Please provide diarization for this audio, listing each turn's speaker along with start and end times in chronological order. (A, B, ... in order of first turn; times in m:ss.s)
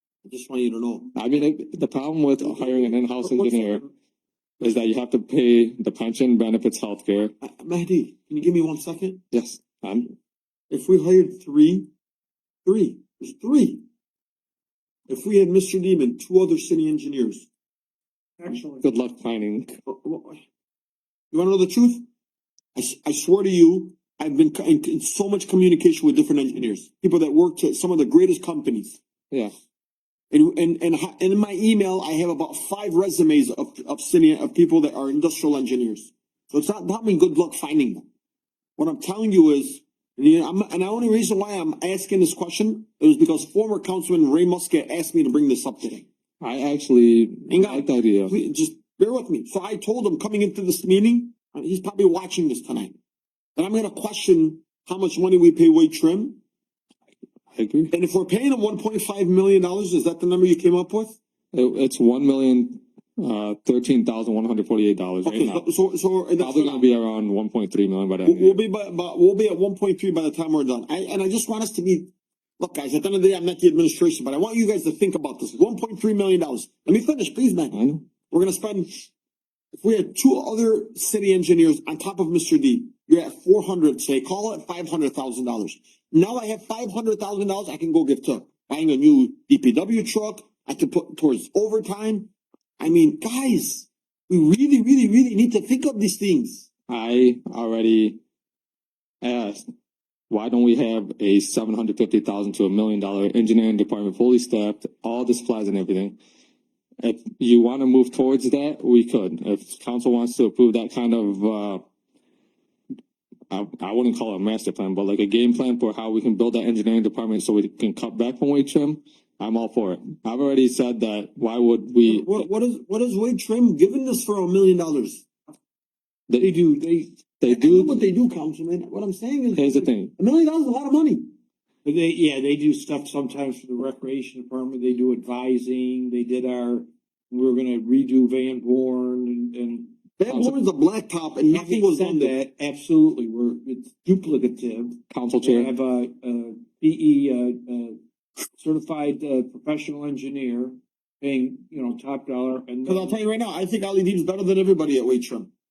0:00.2-0:01.1 A
0:01.2-0:03.8 B
0:02.6-0:03.9 A
0:04.6-0:07.3 B
0:07.5-0:09.2 A
0:09.3-0:10.1 B
0:10.7-0:11.9 A
0:12.6-0:13.8 A
0:15.1-0:17.4 A
0:18.4-0:18.8 C
0:18.8-0:19.8 B
0:19.9-0:20.3 A
0:21.3-0:22.0 A
0:22.8-0:29.0 A
0:30.3-0:38.0 A
0:38.8-0:46.0 A
0:46.4-0:48.4 B
0:47.5-0:52.9 A
0:53.6-0:56.4 A
0:57.5-0:57.9 B
0:57.9-1:01.2 A
1:01.5-1:05.6 B
1:05.3-1:06.8 A
1:06.4-1:08.6 B
1:08.2-1:12.1 A
1:12.6-1:17.7 A
1:17.7-1:18.1 B
1:18.3-1:18.9 A
1:19.8-1:36.7 A
1:36.9-1:38.2 B
1:39.2-1:39.6 B
1:40.3-1:46.2 B
1:47.0-1:51.8 B
1:53.5-2:02.4 B
2:02.1-2:05.2 A
2:06.3-2:06.6 B
2:06.4-2:07.2 C
2:07.4-2:08.0 B
2:07.5-2:11.2 A
2:09.5-2:10.1 B
2:11.8-2:20.1 C
2:20.2-2:22.3 A
2:20.3-2:20.6 B
2:21.4-2:28.0 C
2:25.1-2:25.7 B
2:28.6-2:33.2 C
2:32.9-2:35.5 A